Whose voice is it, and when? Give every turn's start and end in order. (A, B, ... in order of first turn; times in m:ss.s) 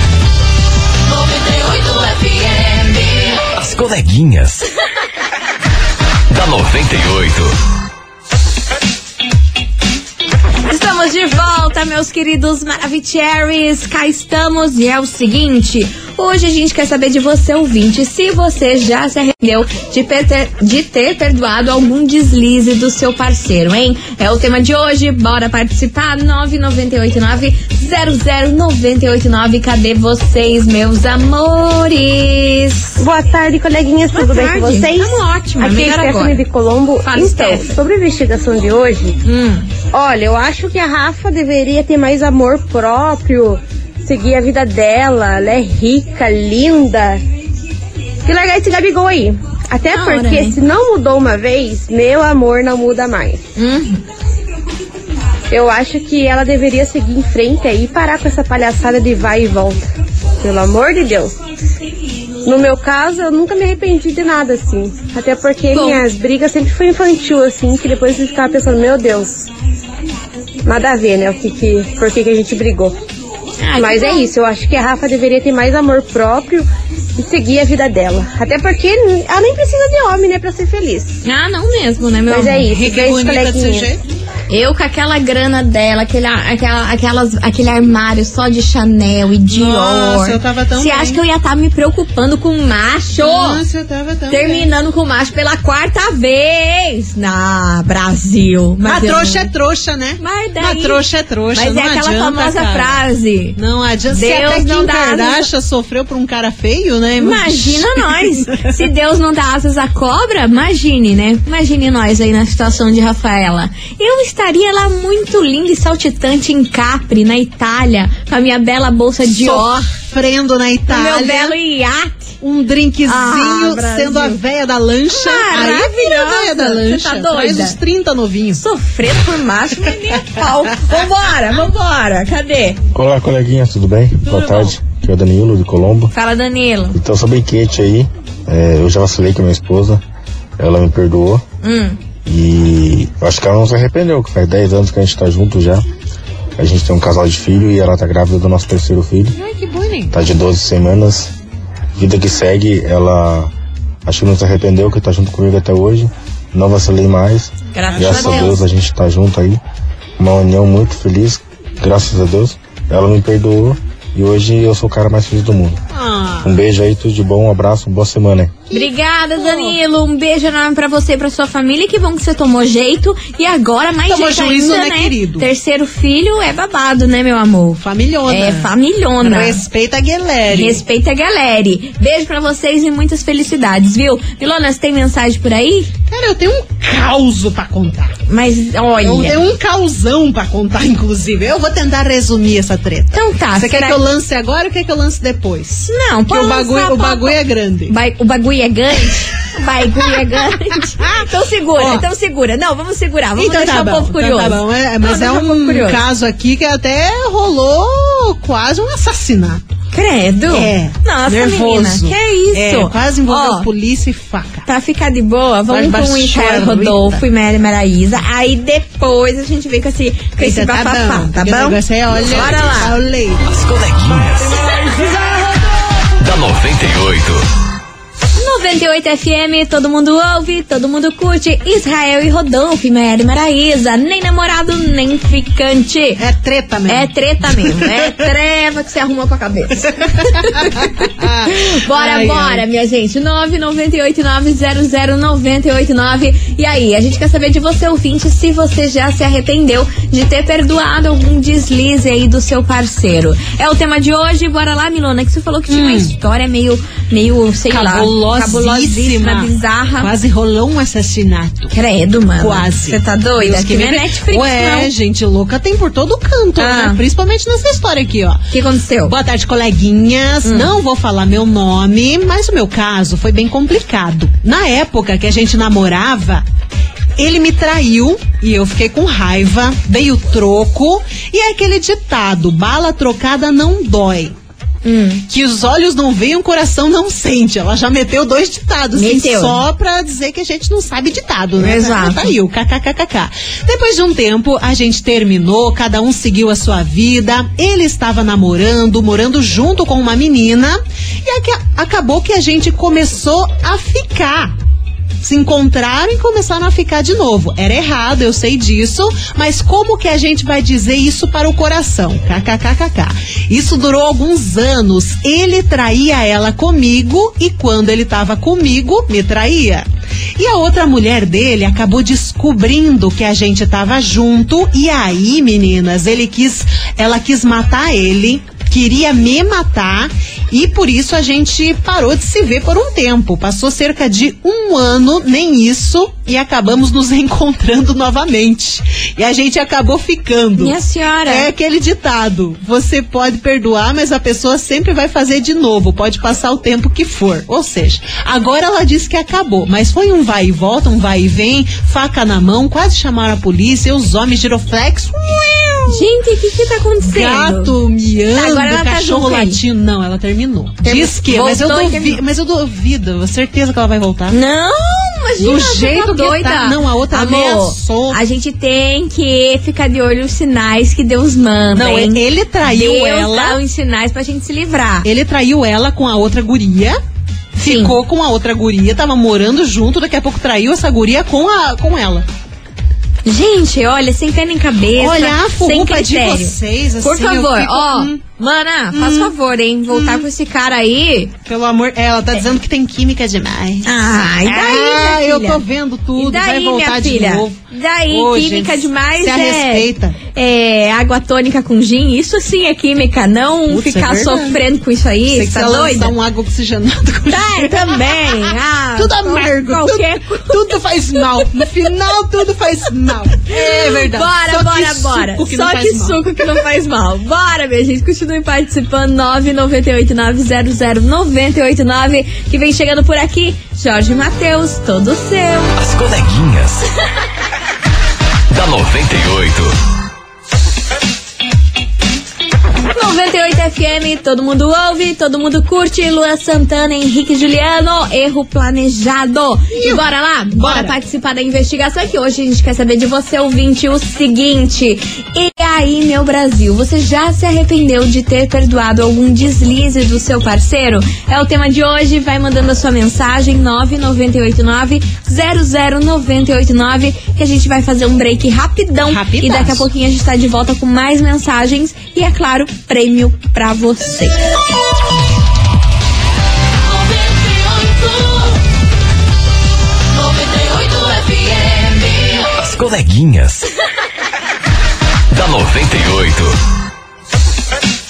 0:03.5-0:04.6 A
0:06.3-0:07.6 A
0:10.7-0:33.0 B
0:33.0-0:39.2 C
0:34.1-0:36.4 B
0:37.0-0:37.8 B
0:39.2-0:39.7 B
0:39.8-0:47.2 C
0:48.2-0:53.4 C
0:49.9-0:50.6 B
0:53.6-0:54.0 B
0:55.5-0:59.9 C
1:00.4-1:01.4 C
1:02.4-1:09.5 C
1:05.7-1:06.0 B
1:10.6-1:13.0 C
1:13.6-1:14.3 B
1:13.8-1:21.2 C
1:21.2-1:22.7 B
1:22.3-1:23.9 C
1:22.7-1:24.0 D
1:24.5-1:33.6 B
1:29.5-1:31.2 D
1:33.2-1:34.7 D
1:34.3-1:39.5 B
1:38.8-1:43.0 D
1:40.2-1:41.0 B
1:41.5-1:43.6 B
1:43.6-1:48.7 D
1:44.1-1:45.5 B
1:47.2-1:59.9 B
1:59.2-2:01.6 D
2:00.9-2:02.4 B
2:02.4-2:08.6 D
2:03.1-2:04.4 B
2:05.1-2:07.8 B
2:08.6-2:12.8 B
2:12.9-2:16.1 E
2:14.3-2:14.7 D
2:16.1-2:17.0 B
2:16.9-2:20.0 E
2:20.6-2:21.4 E
2:21.6-2:22.0 B
2:22.2-2:25.8 E
2:26.6-2:29.4 E
2:29.4-2:30.1 D
2:30.1-2:31.3 E
2:32.0-2:33.5 E
2:34.0-2:39.6 E
2:37.7-2:38.6 B
2:38.0-2:38.5 D
2:40.2-2:45.8 E
2:45.9-2:46.6 D
2:46.4-2:48.6 E
2:48.7-2:49.8 D
2:48.7-2:59.6 B
2:54.1-2:55.5 D
2:57.8-3:00.8 D
3:00.5-3:05.9 B
3:06.1-3:08.2 D
3:08.3-3:09.4 B
3:09.0-3:17.9 D
3:13.1-3:14.0 B
3:15.8-3:26.0 B
3:21.0-3:22.1 D
3:23.4-3:29.6 D
3:29.9-3:33.7 B
3:30.5-3:34.7 D
3:34.7-3:43.0 B
3:35.7-3:37.2 D
3:40.4-3:43.4 D
3:43.5-3:44.7 A
3:46.2-3:47.4 A
3:48.4-3:56.2 B
3:56.2-3:58.0 D
3:56.9-4:20.1 B
3:59.8-4:02.6 D
4:15.7-4:16.1 D
4:17.7-4:21.7 D
4:21.7-4:24.9 B
4:22.4-4:28.4 D
4:26.6-4:27.0 B
4:28.5-4:29.1 B
4:29.0-4:36.4 D
4:30.4-4:30.7 B
4:37.2-4:44.4 D
4:44.8-4:45.3 B
4:45.3-5:04.6 D
4:49.0-4:49.6 B
4:51.6-4:52.3 B
5:05.2-5:19.9 D
5:20.4-5:40.8 D
5:40.6-5:41.5 B
5:41.3-5:56.0 D
5:55.9-5:57.8 B
5:57.0-6:04.4 D
5:58.3-5:59.6 B
6:00.8-6:02.2 B
6:04.3-6:15.1 B
6:05.4-6:08.2 D
6:11.7-6:13.6 D
6:15.0-6:17.0 D
6:17.6-6:18.0 B
6:17.6-6:22.3 D
6:23.2-6:31.3 B
6:25.0-6:28.2 D
6:28.9-6:29.3 D
6:29.9-6:30.3 D
6:31.5-6:33.9 D
6:33.8-6:35.6 B
6:34.4-6:40.2 D
6:36.2-6:46.1 B
6:43.7-6:44.6 D
6:45.3-6:56.5 D
6:47.3-6:50.7 B
6:53.4-7:05.8 B
7:05.8-7:06.9 A
7:08.5-7:09.8 A
7:12.9-7:44.4 B
7:19.8-7:20.0 D
7:20.5-7:21.0 D
7:39.1-7:39.9 D
7:52.5-7:53.7 A
7:55.3-7:56.6 A